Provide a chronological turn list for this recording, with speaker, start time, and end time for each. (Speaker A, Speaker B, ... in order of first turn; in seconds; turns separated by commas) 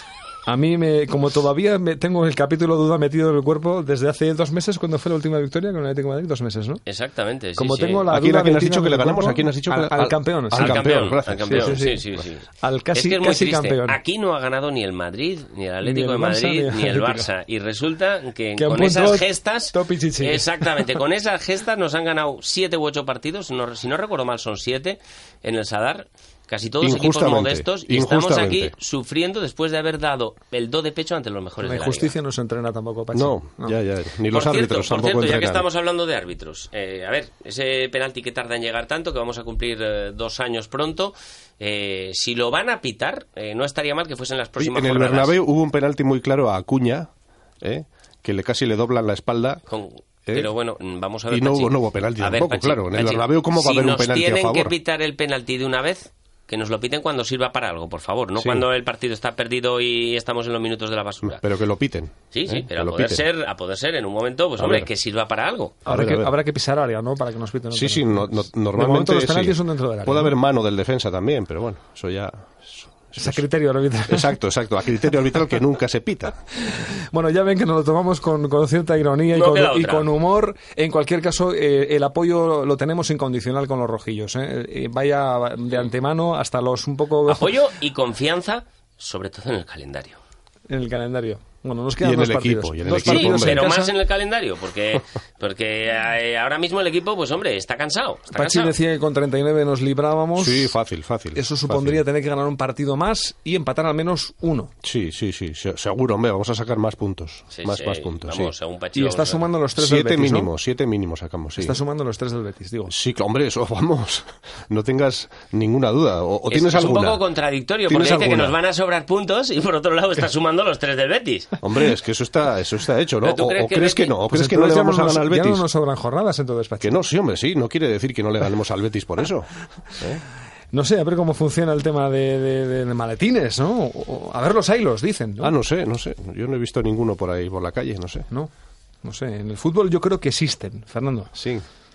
Speaker A: 0.5-6.8, Speaker B: 6.8-8.1, Speaker A: 7.5-10.9, Speaker C: 8.1-11.8, Speaker B: 10.5-32.1, Speaker A: 11.5-12.1, Speaker A: 12.6-14.0, Speaker A: 15.8-17.3, Speaker A: 18.6-21.0, Speaker C: 26.8-28.7, Speaker A: 31.6-33.8, Speaker C: 33.1-35.6, Speaker B: 34.3-45.4, Speaker C: 44.6-47.1, Speaker C: 47.6-49.6, Speaker B: 49.7-61.4, Speaker C: 51.3-54.7, Speaker C: 58.4-58.6, Speaker C: 61.2-63.2, Speaker B: 62.3-65.8, Speaker C: 64.6-64.9, Speaker C: 65.8-66.3, Speaker A: 65.8-70.3, Speaker C: 67.7-73.5, Speaker A: 73.2-74.3, Speaker C: 74.1-76.4, Speaker A: 76.6-87.5, Speaker B: 79.3-80.1, Speaker B: 87.3-90.2, Speaker A: 90.7-93.9, Speaker C: 92.0-93.7, Speaker B: 93.0-98.7, Speaker A: 98.3-100.7, Speaker C: 100.4-102.0, Speaker A: 101.3-104.7, Speaker C: 104.8-108.5, Speaker B: 107.5-109.5, Speaker A: 108.9-110.5, Speaker C: 109.8-111.8, Speaker A: 111.6-112.9, Speaker C: 112.9-117.2, Speaker B: 116.5-121.6, Speaker C: 117.9-118.5, Speaker C: 121.6-125.6, Speaker B: 123.2-124.1, Speaker A: 124.3-127.0, Speaker C: 126.8-130.2, Speaker A: 130.7-135.6, Speaker C: 135.4-138.3, Speaker A: 139.0-141.3, Speaker C: 141.3-141.6